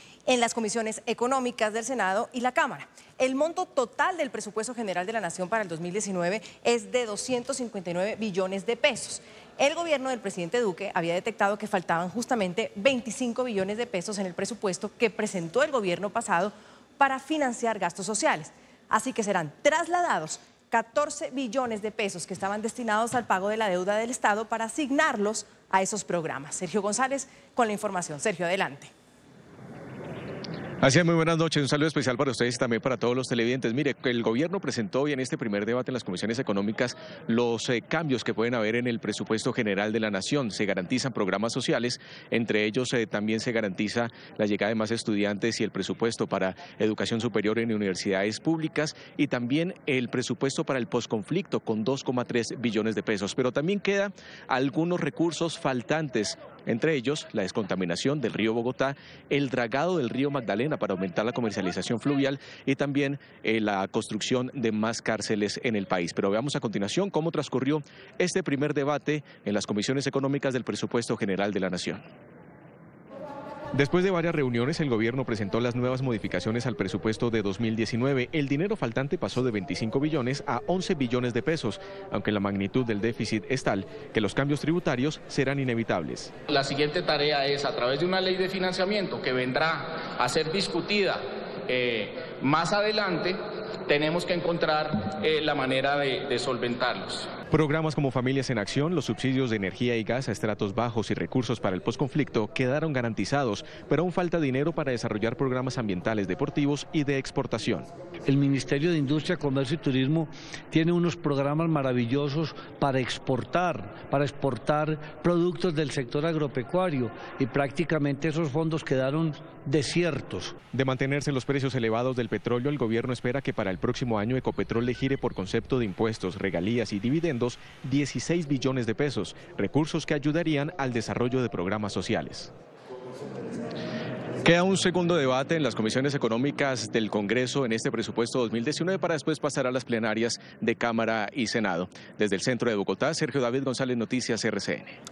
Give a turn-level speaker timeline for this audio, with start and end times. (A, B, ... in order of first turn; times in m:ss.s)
0:00.3-0:28.9 A
0:30.8-1:12.0 B
1:13.7-1:26.3 B
1:26.5-1:37.3 C
1:37.5-1:47.9 B
1:48.3-2:00.6 D
2:00.7-2:12.5 B
2:14.4-2:24.9 B